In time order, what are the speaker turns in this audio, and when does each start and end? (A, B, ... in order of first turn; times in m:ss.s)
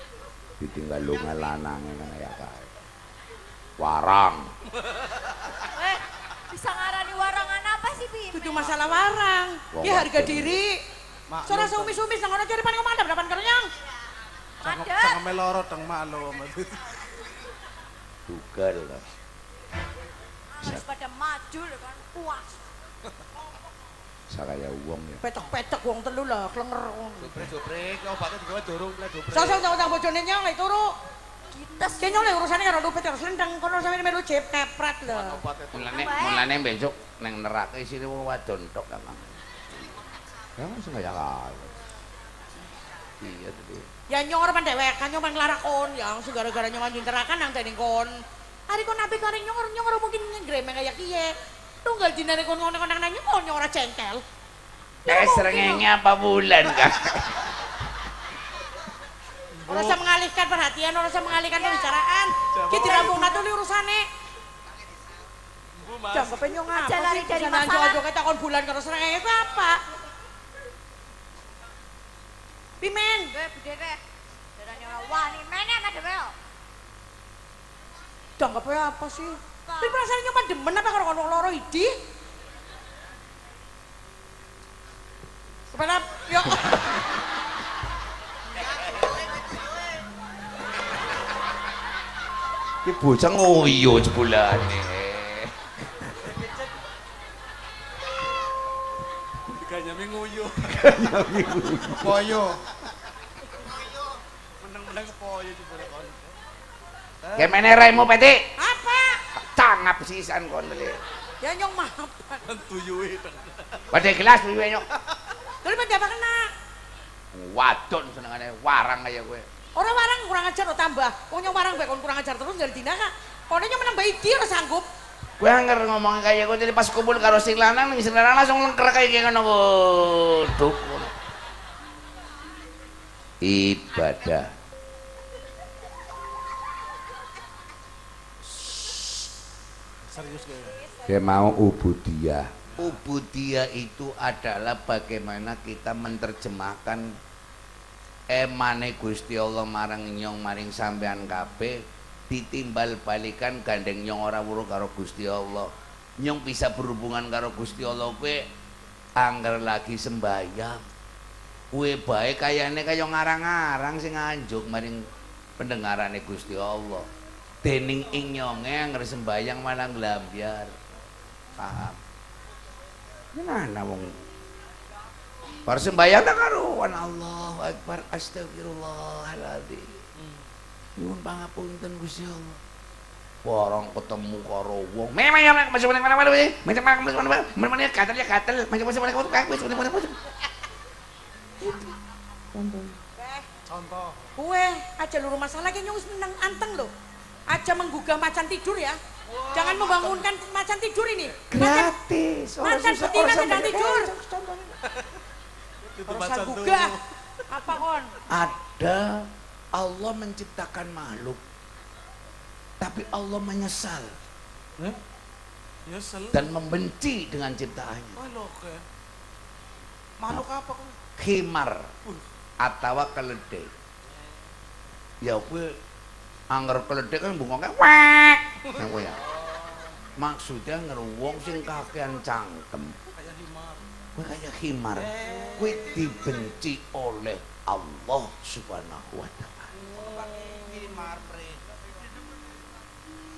0:00.6-0:02.7 A
0:03.8-0:04.5 A
0:04.9-0:05.6 B
0:05.7-0:09.0 C
0:08.3-0:10.8 D
0:09.7-0:10.6 A
0:11.3-0:12.0 B
0:11.5-0:13.7 D
0:14.6-0:15.3 C
0:14.6-0:17.0 B
0:18.3-0:19.0 A
0:20.5-0:22.6 C
0:24.3-0:25.2 A
0:25.2-0:27.5 D
0:27.2-0:30.0 B
0:29.3-0:31.0 D
0:31.5-0:32.5 C
0:32.0-0:35.4 D
0:35.1-0:36.0 B
0:35.7-0:39.8 A
0:35.9-0:36.5 C
0:40.6-0:41.7 A
0:43.2-0:43.9 A
0:44.1-0:54.2 D
0:55.1-0:55.8 D
0:55.1-0:57.5 A
0:59.5-1:00.0 B
0:59.7-1:04.1 D
1:01.6-1:01.9 C
1:02.5-1:03.4 B
1:05.8-1:06.6 B
1:06.1-1:09.8 D
1:06.7-1:08.0 C
1:12.8-1:13.3 D
1:13.3-1:14.0 C
1:14.6-1:16.3 C
1:18.4-1:22.0 D
1:19.7-1:20.0 C
1:25.7-1:26.7 D
1:32.8-1:35.7 A
1:36.2-1:36.7 B
1:39.5-1:41.0 B
1:40.7-1:42.3 A
1:41.9-1:42.6 B
1:44.6-1:46.4 B
1:47.2-1:47.6 B
1:47.4-1:48.4 A
1:48.6-1:49.2 D
1:49.4-1:51.0 A
1:51.4-1:52.4 D
1:52.4-1:54.0 B
1:53.9-1:54.9 A
1:55.6-1:56.5 D
1:57.3-1:59.5 A
1:59.8-2:04.9 D
2:05.4-2:11.2 A
2:13.4-2:14.5 A
2:20.0-2:20.8 B
2:20.4-2:21.2 C
2:21.1-2:27.2 A
2:22.7-2:23.0 B
2:28.3-2:38.5 A
2:39.2-2:40.8 A
2:41.7-2:45.1 A
2:45.6-2:47.1 A
2:47.6-2:50.8 A
2:51.6-2:52.0 A
2:53.4-2:54.2 A
2:55.7-3:00.0 A
3:00.2-3:00.5 B
3:01.0-3:02.6 A
3:03.4-3:10.2 A
3:11.6-3:12.0 A
3:12.5-3:13.0 A
3:13.2-3:13.5 D
3:13.7-3:14.3 B
3:14.4-3:16.9 D
3:17.5-3:19.0 D
3:19.3-3:20.3 B
3:19.5-3:21.9 D
3:21.5-3:24.8 A
3:22.6-3:24.1 D
3:25.8-3:27.8 B
3:26.1-3:27.0 D
3:27.5-3:28.1 D
3:28.3-3:31.4 A
3:32.8-3:34.2 A
3:35.9-3:36.4 B
3:36.3-3:38.2 A
3:38.2-3:38.8 B
3:40.2-3:41.0 B
3:41.2-3:41.9 A
3:42.6-3:43.7 A
3:45.2-3:45.8 A
3:46.5-3:49.2 A
3:48.8-3:50.0 B
3:50.2-3:53.0 A
3:53.2-3:53.9 B
3:54.2-3:59.8 A
3:54.9-3:56.1 B
3:59.7-4:01.8 B
4:00.0-4:00.6 D